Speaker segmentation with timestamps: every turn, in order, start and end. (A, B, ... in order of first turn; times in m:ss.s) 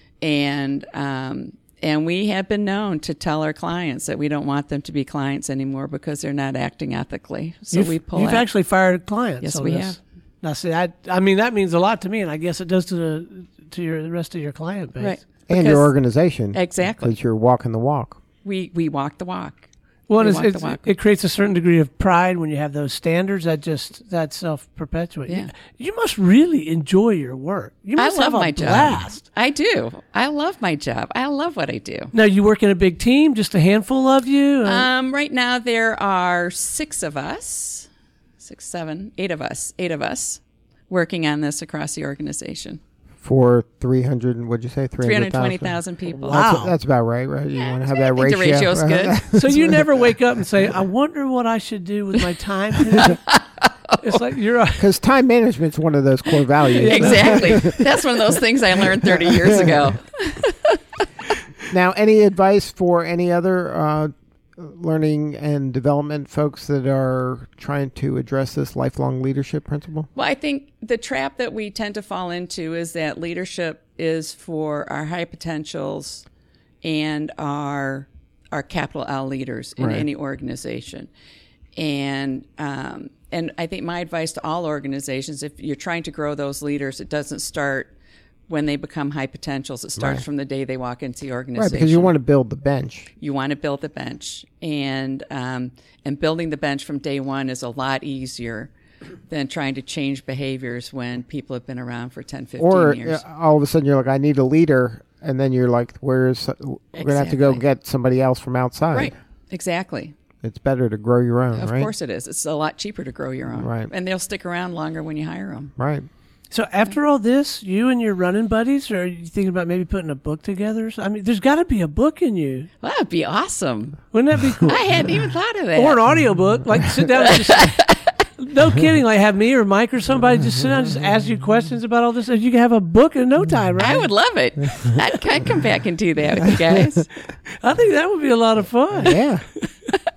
0:00.2-0:08.5 A
0:07.7-0:15.2 B
0:09.4-0:10.0 A
0:15.0-0:16.0 A
0:15.5-0:18.2 C
0:16.5-0:17.2 A
0:18.4-0:19.6 A
0:20.1-0:29.2 B
0:20.2-0:20.9 A
0:25.2-0:25.5 A
0:28.0-0:32.1 A
0:32.1-0:34.9 B
0:34.6-0:37.9 A
0:38.4-0:42.8 A
0:43.2-0:50.0 C
0:45.0-0:46.4 A
0:46.2-0:46.7 B
0:47.5-0:49.3 A
0:49.3-0:53.2 B
0:52.9-0:54.2 A
0:54.0-0:54.8 B
0:54.8-0:57.8 C
0:56.7-0:57.6 B
0:56.8-1:00.8 A
0:59.2-0:59.9 C
1:01.7-1:10.1 C
1:10.1-1:16.2 A
1:16.8-1:21.1 A
1:19.8-1:20.1 C
1:21.8-1:27.9 A
1:28.5-1:32.1 A
1:30.0-1:30.2 C
1:31.5-1:33.1 C
1:33.2-1:38.7 A
1:39.3-1:43.2 A
1:42.6-1:49.1 C
1:46.9-1:47.6 A
1:48.9-1:50.1 A
1:50.4-1:51.9 C
1:51.5-1:55.7 A
1:53.6-1:53.9 C
1:55.8-1:56.1 C
1:56.5-2:02.7 B
2:02.8-2:04.0 A
2:04.1-2:04.8 B
2:04.6-2:06.0 A
2:05.7-2:07.8 B
2:07.2-2:08.1 A
2:08.4-2:14.1 B
2:13.8-2:17.1 A
2:17.6-2:19.2 B
2:19.0-2:19.4 C